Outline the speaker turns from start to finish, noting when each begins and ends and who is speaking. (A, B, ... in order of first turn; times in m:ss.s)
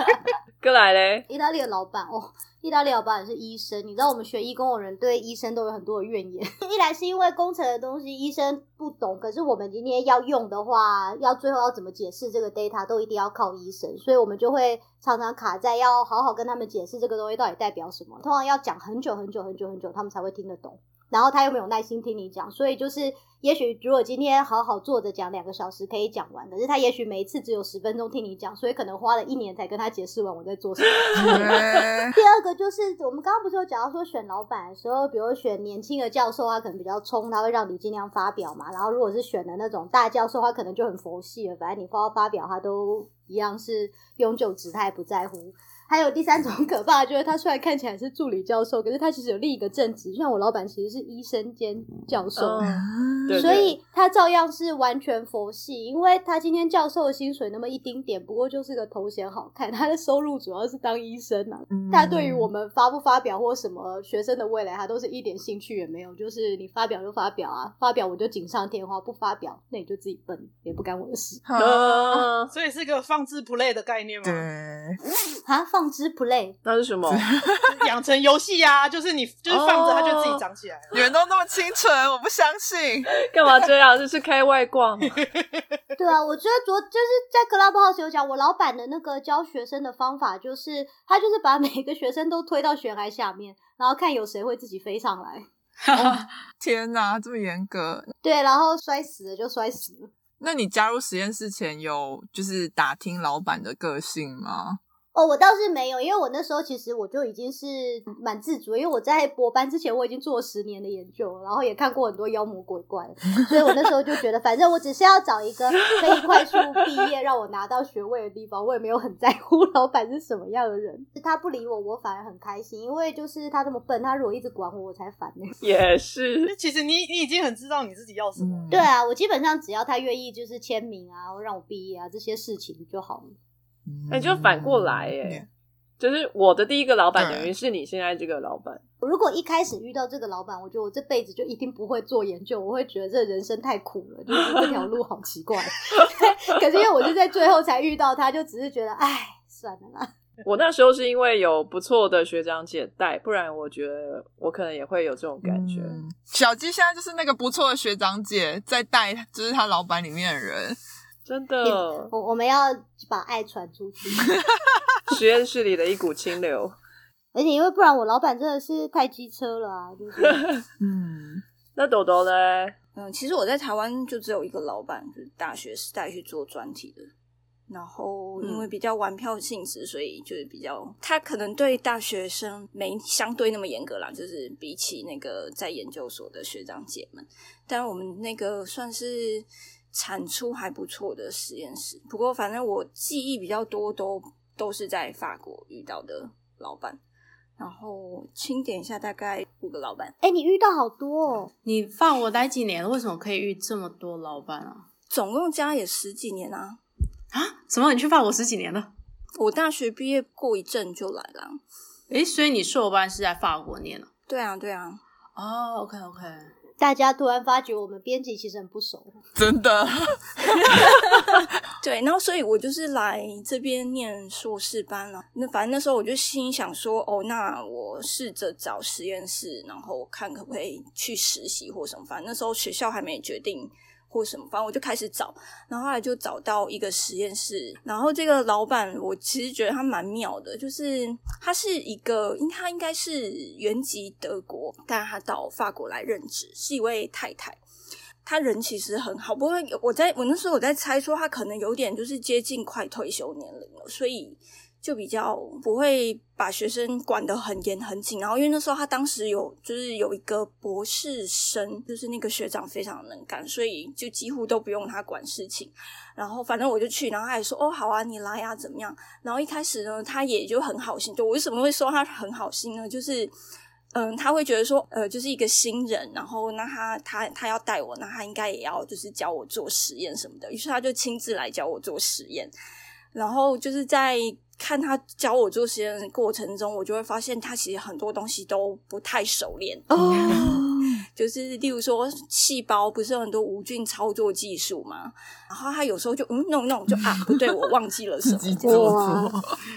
0:00.6-0:01.3 A
0:01.3-0:52.7 B
0:31.1-0:32.2 C
0:52.4-0:53.8 A
0:52.8-0:53.5 C
0:53.3-1:11.4 B
1:01.7-1:02.5 C
1:11.4-1:12.3 C
1:11.6-1:12.5 A
1:12.5-1:14.5 D
1:14.2-1:15.0 C
1:15.4-1:16.6 B
1:16.6-1:17.2 A
1:17.1-1:17.7 C
1:17.7-1:21.1 D
1:19.5-1:20.4 A
1:20.9-1:23.1 C
1:23.1-1:25.2 A
1:26.0-1:35.5 B
1:35.8-1:36.2 E
1:36.0-1:38.1 C
1:38.2-1:40.1 B
1:40.4-1:44.8 C
1:45.1-2:05.5 B
2:05.6-2:06.5 A
2:06.5-2:08.8 D
2:08.4-2:08.9 C
2:08.7-2:13.4 B
2:13.9-2:15.5 C
2:14.1-2:15.4 A
2:16.0-2:18.8 A
2:17.2-2:17.5 C
2:19.0-2:30.1 B
2:30.4-2:36.0 A
2:35.4-2:40.8 C
2:41.3-2:42.1 A
2:41.6-2:44.3 B
2:45.1-2:46.8 A
2:47.3-2:50.4 B
2:50.8-2:51.4 C
2:51.8-2:52.8 A
2:53.0-2:57.1 F
2:57.7-3:17.0 F
3:17.6-3:20.2 F
3:20.2-3:21.5 B
3:21.6-3:24.8 E
3:25.1-3:26.8 F
3:27.3-3:28.9 E
3:29.4-3:31.6 F
3:32.1-3:34.1 E
3:34.3-3:35.0 F
3:35.4-3:36.5 E
3:36.8-3:39.2 B
3:39.4-3:41.0 C
3:41.8-4:07.6 F
4:08.2-4:33.3 F
4:33.9-4:42.5 F
4:43.1-4:50.6 F
4:49.9-4:51.0 C
4:51.2-4:59.1 F
4:57.1-4:57.4 C
4:58.3-4:59.6 C
4:58.6-4:59.3 B